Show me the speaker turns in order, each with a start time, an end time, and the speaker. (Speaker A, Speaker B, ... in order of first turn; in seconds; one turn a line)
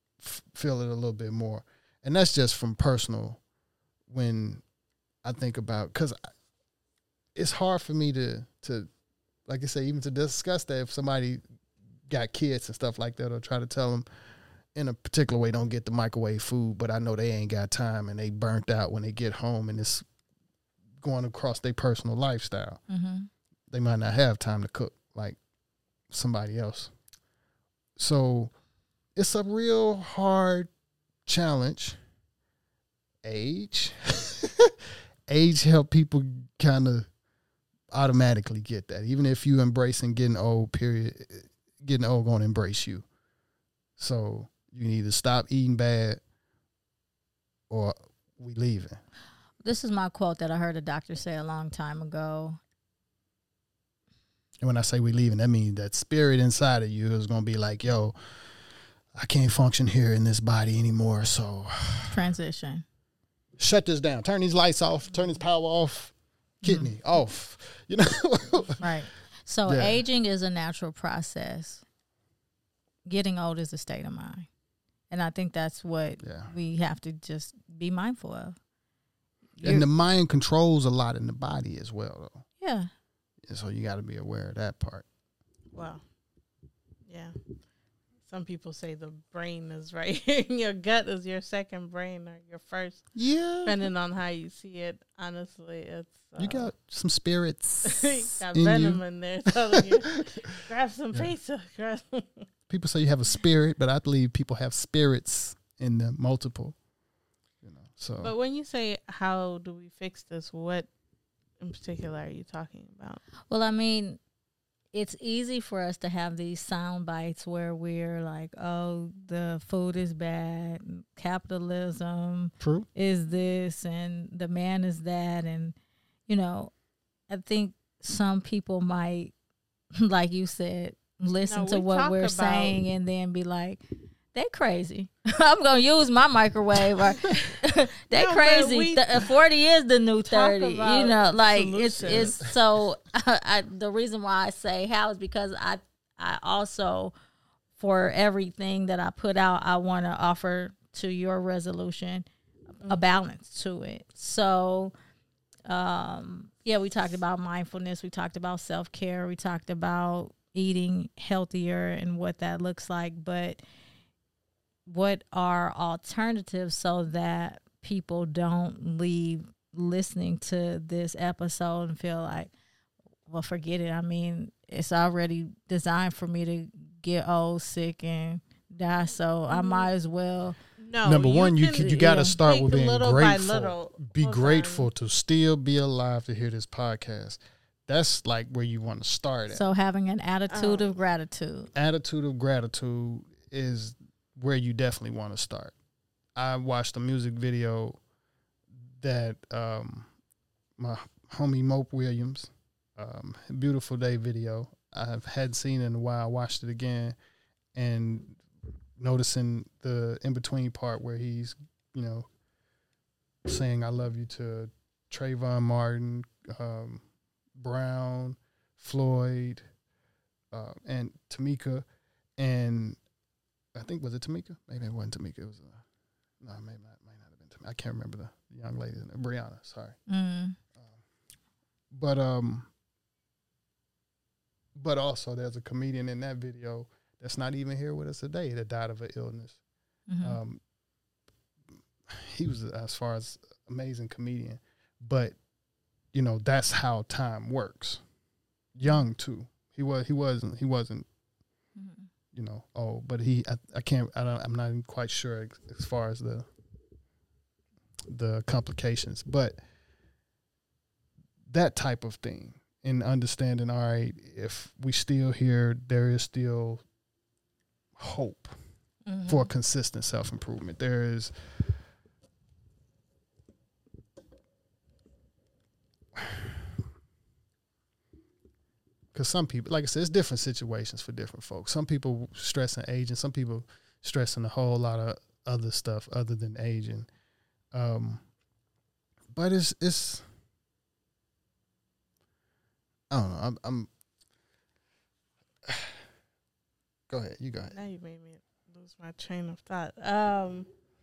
Speaker A: 0.2-3.4
Speaker A: 4.1-4.6
Speaker A: 5.2-6.2
Speaker A: 7.3-8.9
Speaker A: 9.5-11.4
Speaker A: 12.1-14.0
Speaker A: 14.7-20.0
Speaker A: 21.0-22.8
Speaker B: 22.9-23.3
Speaker A: 23.7-25.4
Speaker A: 26.1-26.9
Speaker A: 28.0-28.5
Speaker A: 29.1-30.7
Speaker A: 31.2-32.0
Speaker A: 33.2-34.7
Speaker A: 35.3-37.1
Speaker A: 37.9-43.0
Speaker A: 44.0-46.2
Speaker A: 47.7-49.0
Speaker B: 49.6-52.6
Speaker A: 54.6-58.1
Speaker A: 59.1-62.2
Speaker B: 62.1-62.8
Speaker A: 63.6-68.8
Speaker B: 66.6-66.9
Speaker B: 68.8-71.8
Speaker A: 69.6-70.0
Speaker B: 73.0-74.5
Speaker B: 75.1-78.6
Speaker A: 76.2-76.5
Speaker B: 79.6-79.8
Speaker A: 79.6-82.5
Speaker B: 82.6-82.9
Speaker A: 83.5-85.0
Speaker C: 85.7-86.0
Speaker C: 87.0-87.3
Speaker C: 88.2-93.1
Speaker A: 93.1-93.8
Speaker C: 93.6-96.7
Speaker A: 96.3-99.0
Speaker C: 97.8-102.5
Speaker A: 99.7-100.6
Speaker A: 102.7-106.8
Speaker A: 107.6-108.3
Speaker C: 108.2-110.9
Speaker C: 111.6-113.2
Speaker B: 113.5-114.2
Speaker B: 114.9-125.7
Speaker A: 122.6-122.9
Speaker B: 126.3-126.7
Speaker B: 127.3-129.3
Speaker B: 129.9-147.1
Speaker C: 131.4-132.8
Speaker C: 138.1-139.3
Speaker C: 140.3-142.4
Speaker A: 142.1-142.5
Speaker B: 147.8-152.2
Speaker B: 152.8-154.9
Speaker B: 155.7-163.6
Speaker B: 164.8-172.5
Speaker B: 173.3-180.6
Speaker C: 179.5-179.9
Speaker C: 180.8-184.9
Speaker A: 181.0-189.7
Speaker B: 181.9-182.4
Speaker B: 189.5-191.7
Speaker C: 190.5-191.0
Speaker A: 191.7-195.7
Speaker A: 196.3-198.0
Speaker A: 199.0-200.1
Speaker A: 200.8-207.1
Speaker A: 207.7-208.4
Speaker A: 209.0-212.3
Speaker A: 213.4-217.0
Speaker A: 217.6-219.6
Speaker A: 220.5-221.8
Speaker A: 222.4-223.0
Speaker A: 223.7-225.8
Speaker A: 226.4-230.0
Speaker B: 230.1-230.6
Speaker A: 231.9-232.7
Speaker A: 234.7-239.6
Speaker B: 240.1-240.4
Speaker A: 240.2-240.6
Speaker A: 242.1-245.4
Speaker A: 246.1-248.0
Speaker A: 248.7-251.1
Speaker B: 251.8-252.1
Speaker A: 252.3-256.4
Speaker A: 258.1-259.6
Speaker A: 261.5-266.8
Speaker A: 268.0-268.5
Speaker B: 269.1-269.5
Speaker A: 269.3-271.3
Speaker A: 276.1-276.5
Speaker A: 279.1-287.1
Speaker A: 287.7-288.2
Speaker A: 289.3-290.2
Speaker A: 293.1-293.9
Speaker A: 295.7-295.9
Speaker A: 297.1-297.8
Speaker C: 297.7-300.7